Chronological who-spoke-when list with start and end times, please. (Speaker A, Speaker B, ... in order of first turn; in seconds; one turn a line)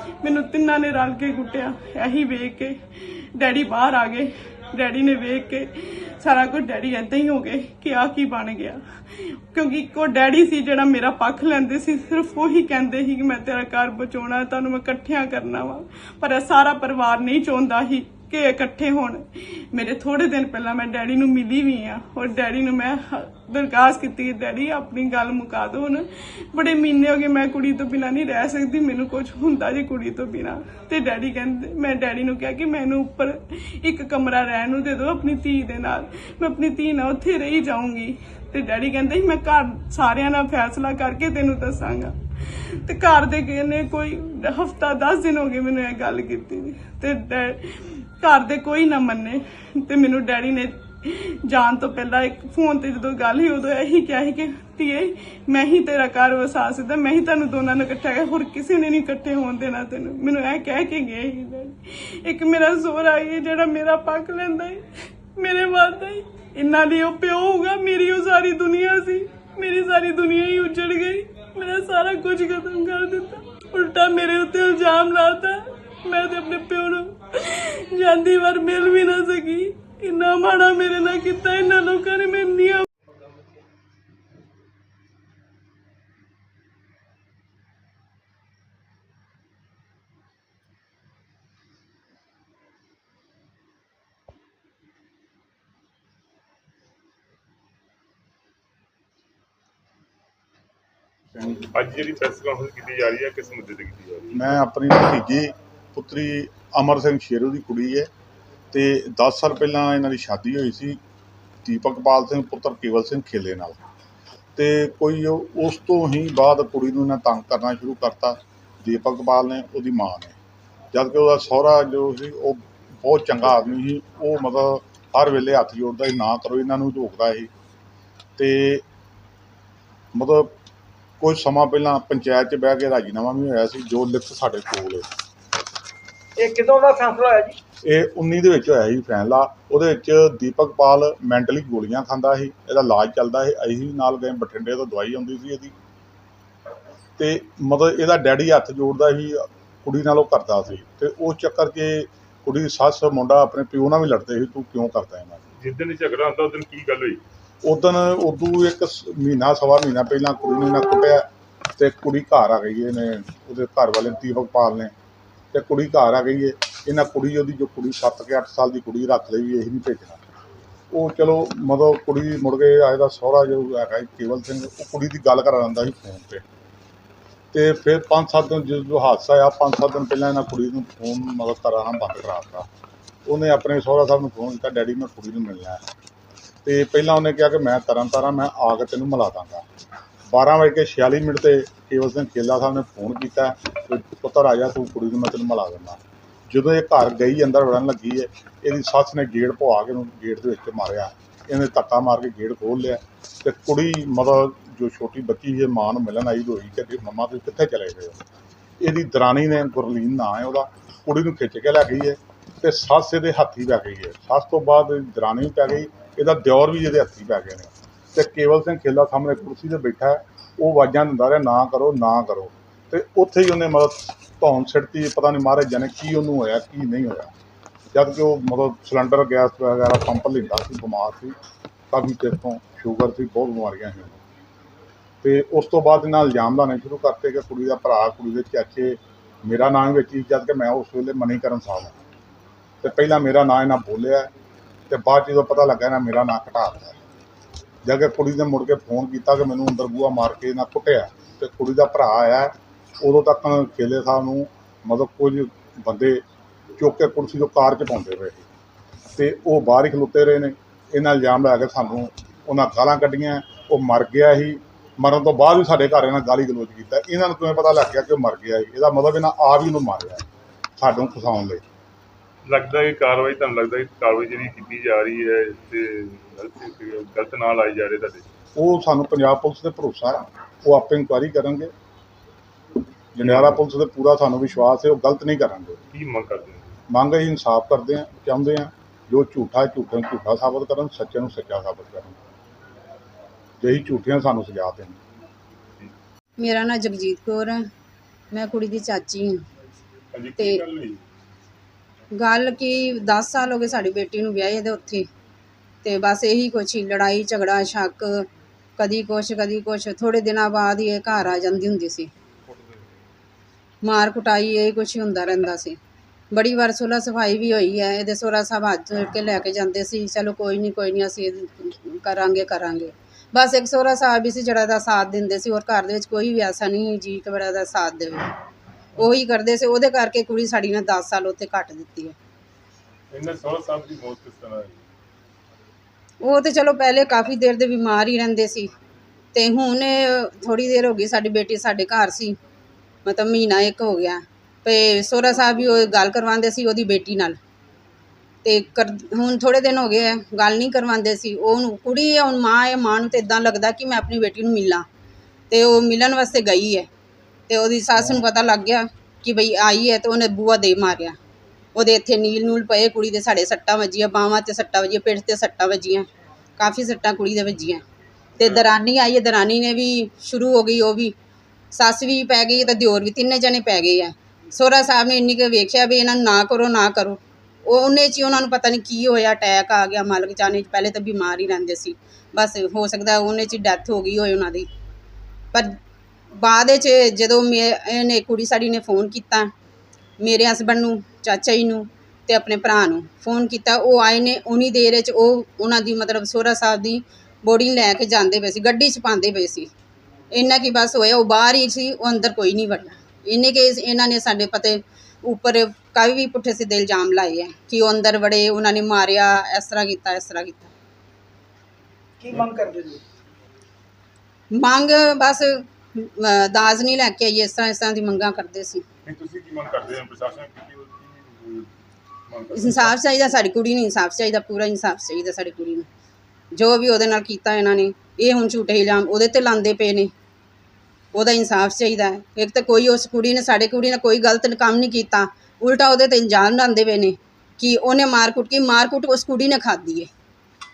Speaker A: 0.2-64.8
Speaker A: 65.3-82.9
Speaker B: 101.6-104.5
Speaker C: 104.3-108.1
Speaker C: 108.7-111.0
Speaker C: 111.6-113.8
Speaker C: 114.5-120.4
Speaker C: 120.9-127.5
Speaker C: 128.4-128.8
Speaker C: 130.1-130.5
Speaker C: 131.2-135.1
Speaker D: 136.4-137.6
Speaker C: 137.8-145.7
Speaker C: 147.2-155.4
Speaker B: 155.6-157.2
Speaker C: 157.6-164.9
Speaker C: 165.5-170.2
Speaker C: 170.9-176.4
Speaker C: 177.5-182.7
Speaker C: 183.3-185.8
Speaker C: 186.6-189.6
Speaker C: 190.3-208.2
Speaker C: 208.8-227.3
Speaker C: 227.9-231.3
Speaker C: 231.9-234.2
Speaker C: 235.2-241.9
Speaker C: 242.8-244.3
Speaker C: 244.9-247.0
Speaker C: 247.8-256.2
Speaker C: 256.8-258.4
Speaker C: 259.1-270.2
Speaker C: 270.8-271.6
Speaker B: 272.5-278.2
Speaker C: 278.6-281.7
Speaker C: 283.1-285.8
Speaker B: 283.2-283.5
Speaker B: 285.9-286.7
Speaker C: 286.9-292.1
Speaker C: 293.6-295.0
Speaker E: 296.4-297.6
Speaker E: 298.3-299.4
Speaker B: 300.1-301.0
Speaker E: 302.1-305.1
Speaker E: 305.8-308.2
Speaker E: 308.8-312.1
Speaker E: 313.8-315.8
Speaker E: 316.3-328.3
Speaker E: 329.0-332.1
Speaker B: 333.1-334.8
Speaker E: 336.2-338.7
Speaker E: 339.3-342.4
Speaker E: 343.0-347.4
Speaker E: 348.4-354.9
Speaker E: 355.5-356.9
Speaker E: 357.5-361.2
Speaker E: 361.7-366.1
Speaker E: 366.6-367.8
Speaker E: 368.4-371.1
Speaker E: 371.7-384.7
Speaker E: 386.4-389.5
Speaker E: 390.2-399.7
Speaker E: 400.3-410.7
Speaker D: 412.2-413.0
Speaker E: 414.5-418.8
Speaker B: 419.1-421.7
Speaker B: 422.3-422.9
Speaker E: 422.5-425.9
Speaker E: 426.5-430.1
Speaker E: 431.1-440.1